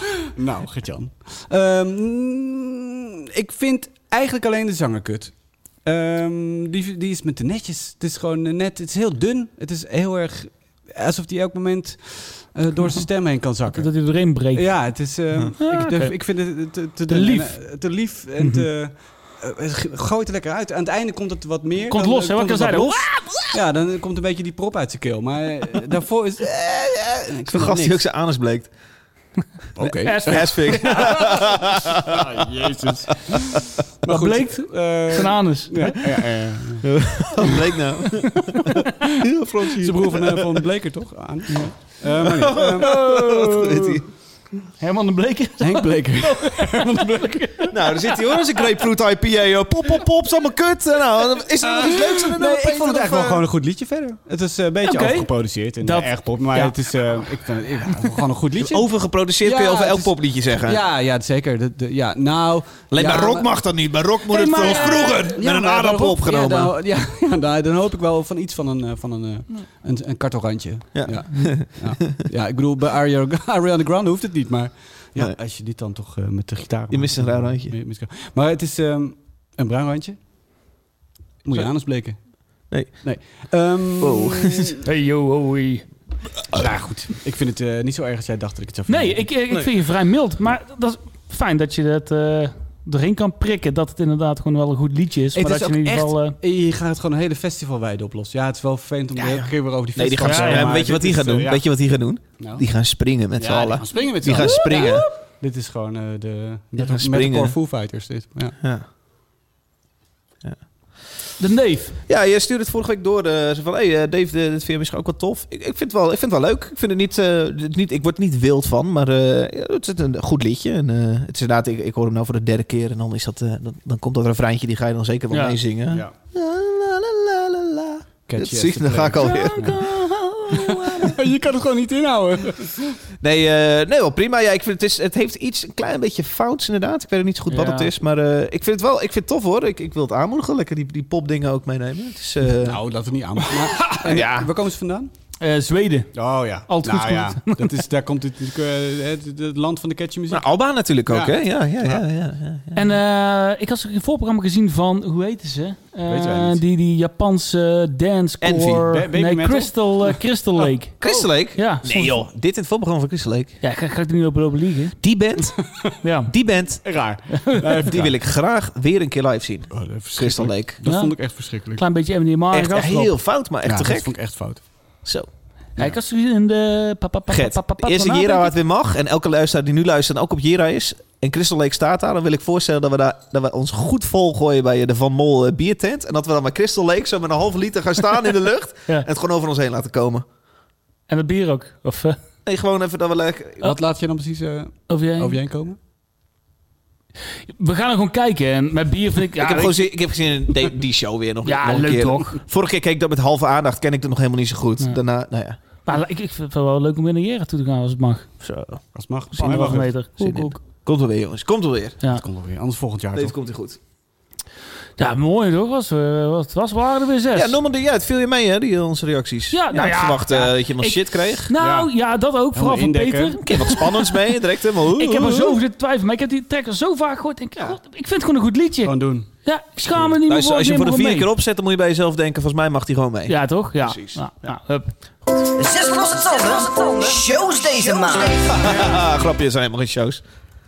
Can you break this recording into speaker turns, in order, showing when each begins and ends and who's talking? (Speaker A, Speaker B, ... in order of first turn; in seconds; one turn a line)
Speaker A: 0.3-26.6
Speaker B: 13.7-18.7
Speaker B: 21.8-23.1
Speaker C: 23.0-23.6
Speaker C: 26.4-28.7
Speaker A: 27.4-28.0
Speaker A: 29.8-30.9
Speaker B: 29.8-31.2
Speaker C: 30.3-32.2
Speaker A: 32.0-36.9
Speaker B: 34.1-36.0
Speaker C: 36.9-40.6
Speaker A: 39.8-42.9
Speaker B: 41.5-41.9
Speaker C: 42.2-44.0
Speaker B: 42.8-44.0
Speaker B: 44.8-47.9
Speaker A: 45.6-47.7
Speaker C: 47.7-53.4
Speaker A: 51.7-58.9
Speaker B: 54.9-57.2
Speaker C: 58.6-60.8
Speaker A: 59.4-63.5
Speaker C: 62.9-66.7
Speaker B: 64.3-65.3
Speaker A: 65.3-80.2
Speaker C: 70.9-72.1
Speaker B: 71.3-71.6
Speaker C: 76.9-77.8
Speaker A: 81.4-84.8
Speaker C: 82.7-83.1
Speaker C: 84.0-84.7
Speaker B: 84.8-85.8
Speaker A: 86.5-89.3
Speaker B: 88.9-96.3
Speaker A: 95.3-101.7
Speaker C: 99.1-105.1
Speaker B: 100.2-100.7
Speaker A: 102.4-102.7
Speaker A: 103.3-108.5
Speaker B: 104.6-105.0
Speaker C: 106.8-107.6
Speaker C: 108.6-108.8
Speaker B: 111.4-111.9
Speaker C: 112.1-129.9
Speaker B: 125.3-125.6
Speaker A: 128.3-132.9
Speaker B: 129.2-131.1
Speaker C: 130.5-131.1
Speaker C: 133.2-142.8
Speaker B: 137.5-137.9
Speaker A: 142.4-145.1
Speaker C: 143.9-144.5
Speaker B: 145.4-147.8
Speaker A: 146.1-150.5
Speaker C: 150.3-152.9
Speaker A: 151.1-152.0
Speaker B: 152.7-162.2
Speaker A: 156.1-156.6
Speaker C: 158.4-158.8
Speaker A: 158.8-160.2
Speaker C: 161.0-163.6
Speaker A: 161.0-161.3
Speaker B: 163.6-165.0
Speaker C: 165.0-165.7
Speaker B: 166.0-166.3
Speaker C: 166.3-166.9
Speaker A: 166.8-168.1
Speaker B: 167.4-167.8
Speaker C: 167.9-170.8
Speaker A: 169.7-171.8
Speaker B: 170.8-173.1
Speaker C: 172.5-174.2
Speaker A: 173.6-174.6
Speaker C: 175.0-175.9
Speaker B: 175.8-178.5
Speaker C: 177.3-190.2
Speaker B: 191.1-192.2
Speaker C: 192.4-193.7
Speaker A: 193.6-195.8
Speaker B: 194.9-195.4
Speaker B: 197.6-199.8
Speaker C: 199.4-205.6
Speaker B: 201.4-202.4
Speaker B: 205.8-208.3
Speaker C: 208.4-208.8
Speaker A: 208.9-209.9
Speaker C: 209.3-212.0
Speaker B: 209.4-210.6
Speaker A: 212.1-213.3
Speaker C: 213.1-213.8
Speaker B: 215.0-217.5
Speaker C: 217.3-221.5
Speaker B: 219.5-224.2
Speaker A: 221.6-221.9
Speaker A: 222.5-223.4
Speaker C: 223.4-225.6
Speaker B: 224.9-231.3
Speaker A: 228.8-229.3
Speaker C: 230.2-234.6
Speaker B: 233.3-234.9
Speaker D: 235.6-238.6
Speaker C: 238.3-240.2